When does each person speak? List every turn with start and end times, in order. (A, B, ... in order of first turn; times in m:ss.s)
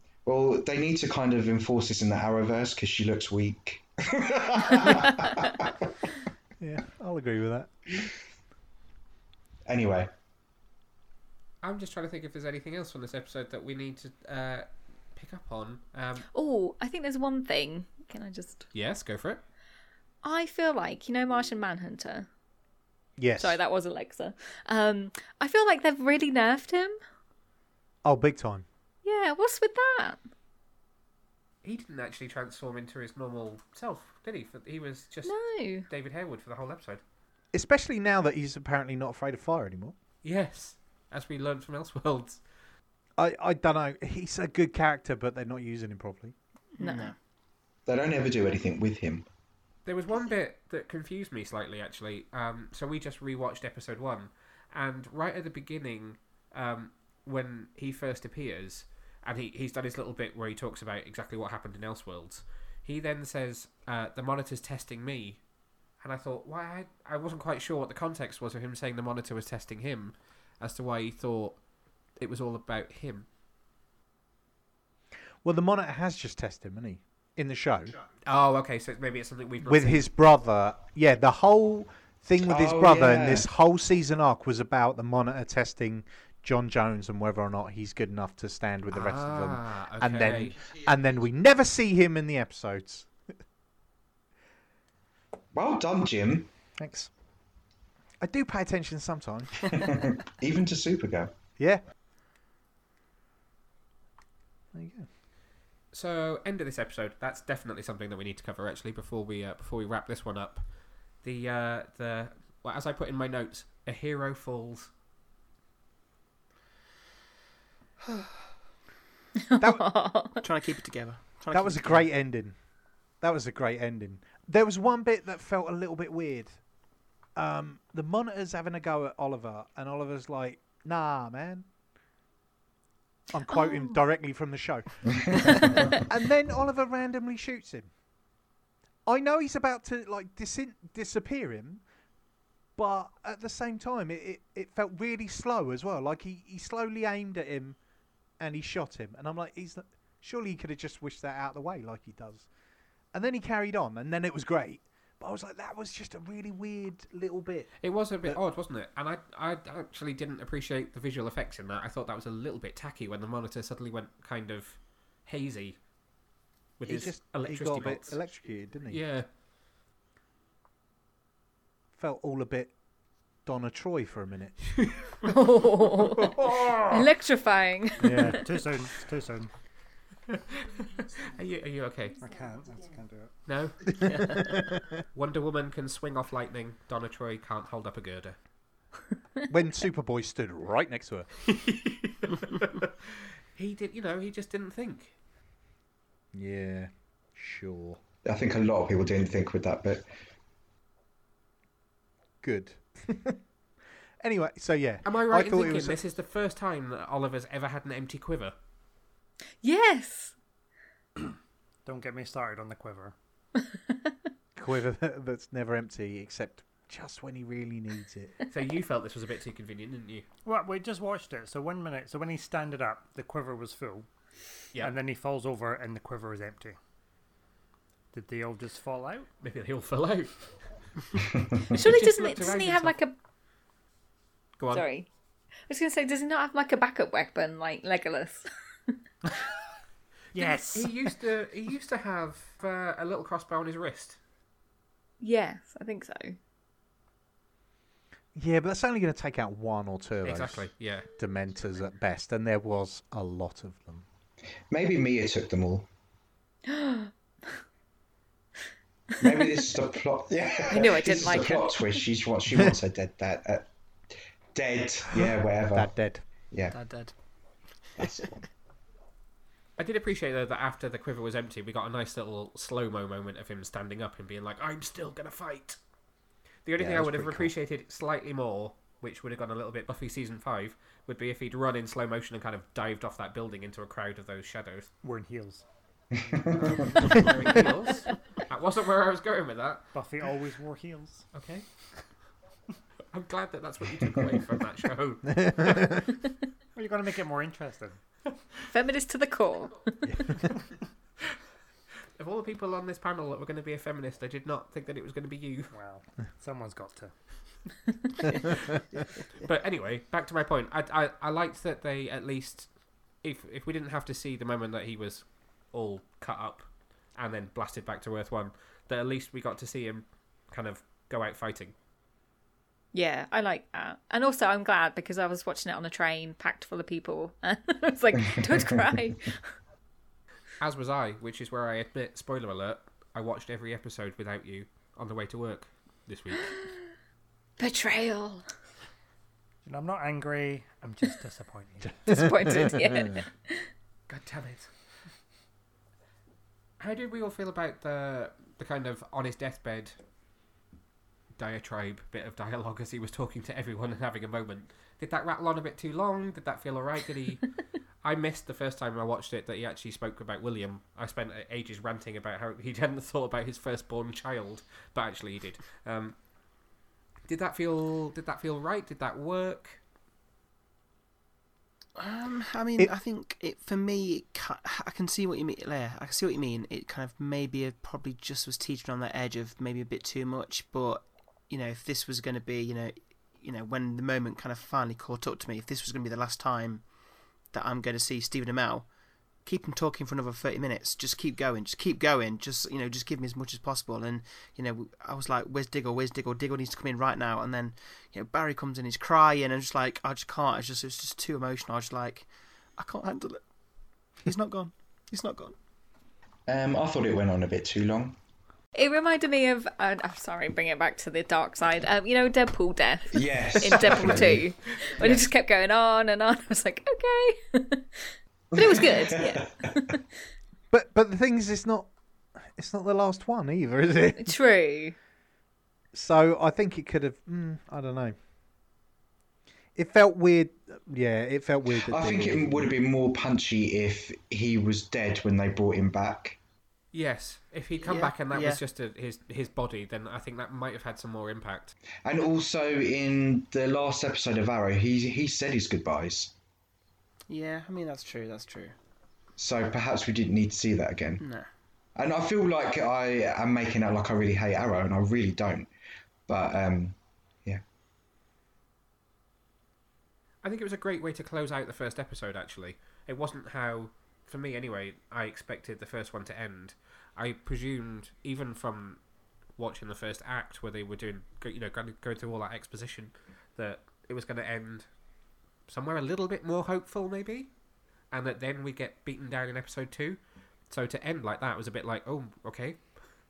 0:00.3-0:05.7 A
0:06.6-0:08.1 B
0:09.7-0:10.1 A
0:11.6-0:16.3 C
0:16.3-0:18.7 D
0:18.7-0:19.4 C
0:20.2-0:22.3 D
0:23.2-0:23.6 B
0:23.4-0:27.0 D
0:28.0-0:28.7 B
0:29.0-0:30.2 D
0:31.6-0:37.0 C
0:35.3-0:35.9 D
0:37.5-0:40.0 B
0:40.2-0:42.4 C
0:43.2-0:46.4 B
0:46.8-0:47.1 E
0:46.8-0:47.1 D
0:47.9-0:49.3 A
0:49.9-1:05.4 C
1:06.0-1:11.6 C
1:12.2-1:13.3 C
1:15.4-1:18.0 B
1:18.2-1:20.1 C
1:19.6-1:33.2 B
1:22.4-1:23.5 A
1:28.9-1:30.6 C
1:35.5-1:36.5 A
1:36.8-1:37.1 B
1:38.2-1:39.9 B
1:39.8-1:41.3 A
1:44.7-1:45.1 B
1:45.9-1:50.6 C
1:51.2-1:54.9 C
1:59.4-2:00.4 D
1:59.6-1:59.9 B
2:00.4-2:02.1 E
2:01.5-2:02.6 B
2:03.2-2:06.7 B
2:07.4-2:11.7 B
2:13.3-2:17.9 B
2:13.5-2:14.0 D
2:19.1-2:21.8 B
2:22.8-2:27.8 B
2:28.4-2:32.5 B
2:33.1-2:38.4 B
2:37.8-2:45.8 C
2:46.8-2:48.2 C
2:46.9-2:49.0 B
2:48.9-2:49.3 C
2:52.0-2:52.8 B
2:53.4-2:54.8 B
2:55.2-2:56.3 D
2:56.4-2:56.8 C
2:56.9-2:58.4 D
2:58.0-2:58.4 B
2:58.3-2:59.5 F
3:00.4-3:00.6 C
3:01.4-3:02.2 C
3:02.2-3:03.3 F
3:03.5-3:04.3 C
3:04.1-3:04.6 E
3:05.1-3:08.4 C
3:09.5-3:11.5 B
3:11.5-3:15.1 C
3:16.3-3:18.0 B
3:18.2-3:20.1 A
3:22.4-3:23.4 B
3:24.2-3:26.0 B
3:25.0-3:28.5 C
3:29.6-3:30.4 D
3:31.8-3:33.2 F
3:34.6-3:38.4 B
3:38.5-3:40.3 C
3:40.4-3:44.1 F
3:44.8-3:46.8 F
3:48.1-3:49.3 F
3:49.4-3:51.0 C
3:51.7-3:53.0 C
3:51.7-3:53.1 D
3:54.6-3:54.8 C
3:54.7-3:55.1 D
3:55.7-3:59.0 D
4:00.3-4:01.1 F
4:00.3-4:04.2 C
4:05.2-4:06.4 D
4:08.4-4:14.0 B
4:10.2-4:11.1 C
4:14.7-4:15.9 A
4:16.7-4:17.1 D
4:19.2-4:23.7 A
4:20.7-4:22.0 D
4:24.5-4:26.0 A
4:25.2-4:26.2 B
4:26.7-4:28.4 E
4:29.8-4:35.8 C
4:36.6-4:44.9 C
4:36.8-4:37.5 A
4:45.0-4:45.7 F
4:46.2-4:46.8 A
4:46.6-4:49.9 C
4:47.0-4:48.2 F
4:49.9-4:51.4 F
4:51.3-4:52.3 C
4:53.1-4:56.0 C
4:55.4-4:56.0 B
4:56.7-4:58.0 F
4:58.7-5:00.0 D
5:00.0-5:00.5 B
5:02.2-5:05.8 C
5:05.7-5:08.0 F
5:09.4-5:21.7 C
5:22.9-5:29.6 D
5:30.6-5:36.7 C
5:37.6-5:38.4 D
5:39.6-5:42.2 F
5:42.1-5:43.7 D
5:44.1-5:44.7 C
5:46.8-5:50.0 C
5:51.4-6:06.3 C
6:07.2-6:09.8 C
6:12.0-6:26.9 E
6:27.5-6:28.9 E
6:29.4-6:43.4 E
6:44.2-6:45.6 E
6:46.5-6:48.2 A
6:48.7-7:00.1 D
6:53.1-6:54.5 A
6:58.6-6:59.5 A
7:00.7-7:04.4 B
7:04.2-7:05.0 D
7:05.9-7:08.2 B
7:09.8-7:12.7 B
7:11.8-7:16.4 A
7:16.9-7:21.8 C
7:17.8-7:18.6 E
7:22.0-7:26.3 A
7:27.3-7:28.8 E
7:29.4-7:31.2 A
7:31.2-7:31.5 E
7:32.0-7:35.7 A
7:36.3-7:37.6 A
7:40.4-7:49.0 C
7:49.6-7:54.9 C
7:55.7-7:57.5 C
7:58.1-8:00.2 C
8:00.7-8:03.0 C